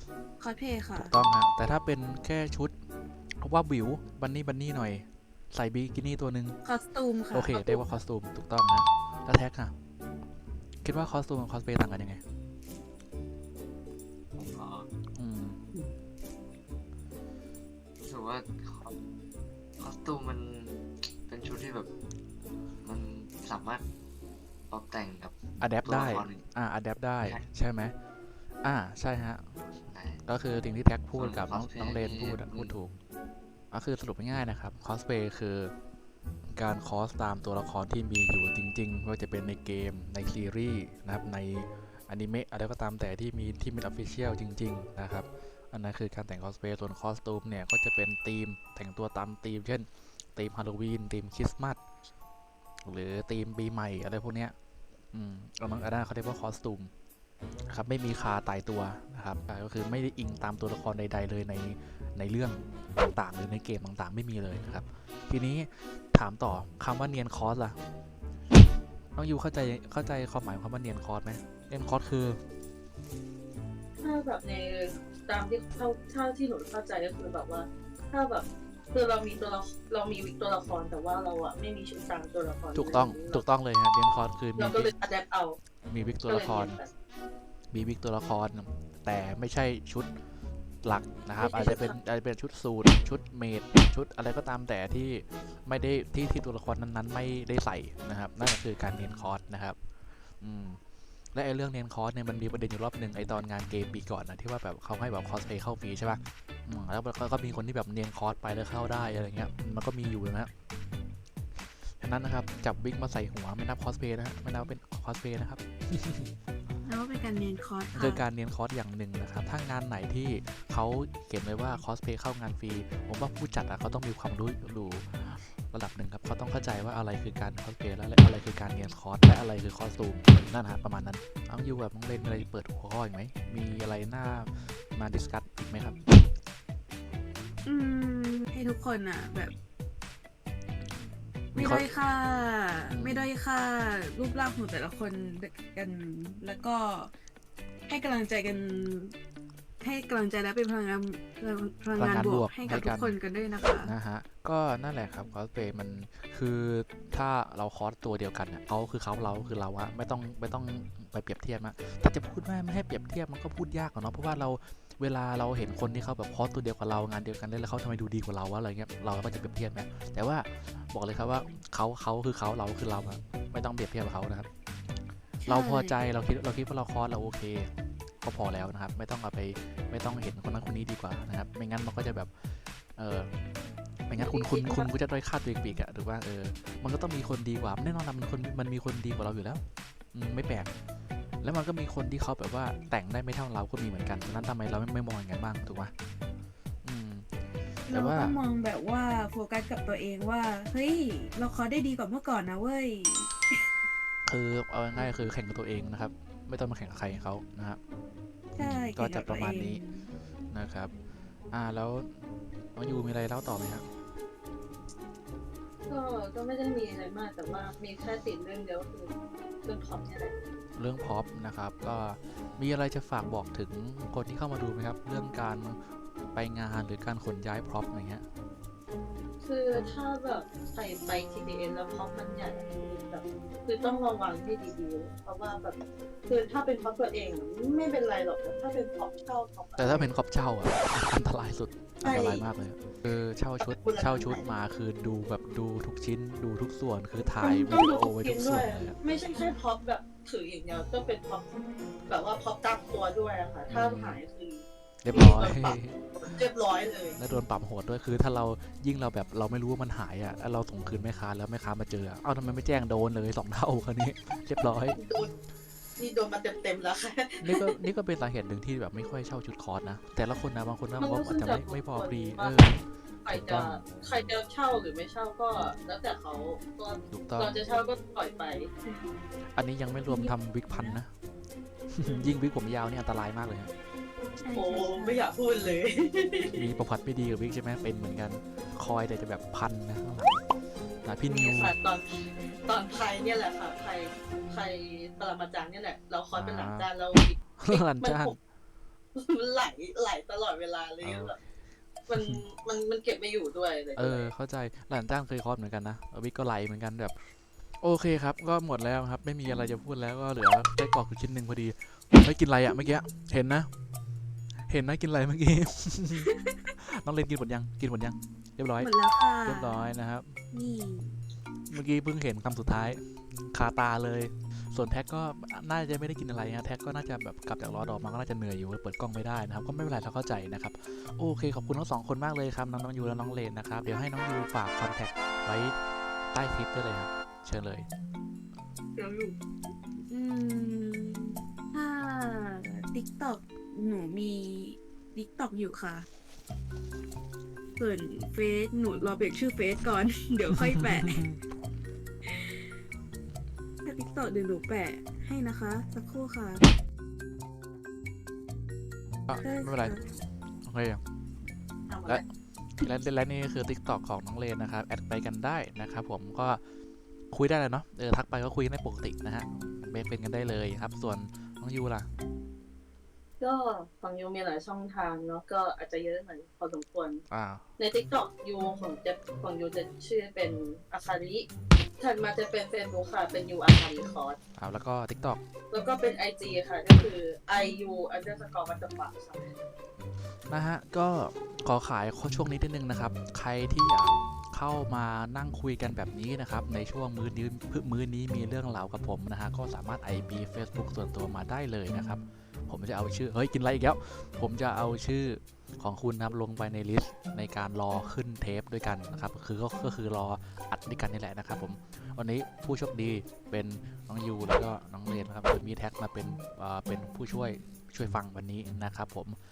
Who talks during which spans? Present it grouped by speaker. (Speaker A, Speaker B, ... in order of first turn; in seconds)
Speaker A: 0.4-1.2, 6.6-8.0, 116.8-118.2, 137.6-139.6, 141.6-147.1, 147.9-149.2, 149.8-153.9, 175.4-176.0, 197.9-203.7, 208.6-210.1, 280.1-281.0, 284.4-285.3, 318.8-320.0, 320.5-321.2, 339.0-339.3, 340.1-346.1, 347.8-351.2, 353.8-356.6, 359.4-360.0
Speaker B: 0.9-2.7, 3.4-6.6, 7.3-9.7, 10.8-12.2, 15.2-15.6, 25.6-27.9, 28.6-29.6, 30.2-32.9, 33.7-35.7, 36.5-51.8, 52.9-54.5, 55.1-56.9, 57.7-67.8, 69.2-72.4, 82.8-84.9, 85.9-86.8, 87.7-90.1, 90.8-99.8, 100.4-100.8, 101.3-110.5, 111.8-116.3, 117.9-136.0, 141.5-141.9, 142.9-143.3, 151.9-153.2, 153.8-174.5, 175.5-177.7, 178.2-183.3, 184.1-190.7, 191.4-195.9, 196.8-197.3, 197.9-198.4, 204.3-207.8, 208.6-209.8, 210.5-210.9, 211.5-212.2, 212.8-213.8, 220.8-225.8, 226.3-228.2, 239.8-249.0, 253.7-254.2, 255.0-256.0, 257.1-265.0, 267.4-272.8, 273.3-273.8, 277.1-277.6, 279.6-281.1, 281.9-283.7, 286.5-290.4, 291.0-291.8, 296.3-296.9, 297.6-298.4, 301.0-301.4, 302.1-302.4, 304.0-307.1, 307.8-313.7, 314.7-318.9, 319.4-320.4, 321.7-335.8, 336.3-337.9, 350.5-351.4, 359.3-360.0, 360.6-361.0, 362.8-366.6, 367.3-372.1, 377.3-377.6, 384.6-385.4, 390.5-419.4
Speaker C: 14.3-14.9, 18.0-19.0, 19.8-21.9, 22.8-23.9, 24.7-26.5, 27.2-27.5, 29.9-30.2, 31.1-32.8
Speaker D: 74.0-83.4, 84.6-85.6, 86.3-86.9, 91.4-92.0, 184.2-184.9, 215.9-219.1, 219.7-220.3, 229.4-240.1, 242.0-242.5, 243.6-244.5, 247.4-257.2, 264.9-265.3, 266.0-267.8, 271.0-272.6, 273.2-278.7, 284.5-286.6, 291.3-298.4, 299.1-301.4, 302.1-304.3, 361.9-362.2, 373.4-377.2, 377.8-381.5, 382.0-384.4, 385.7-389.5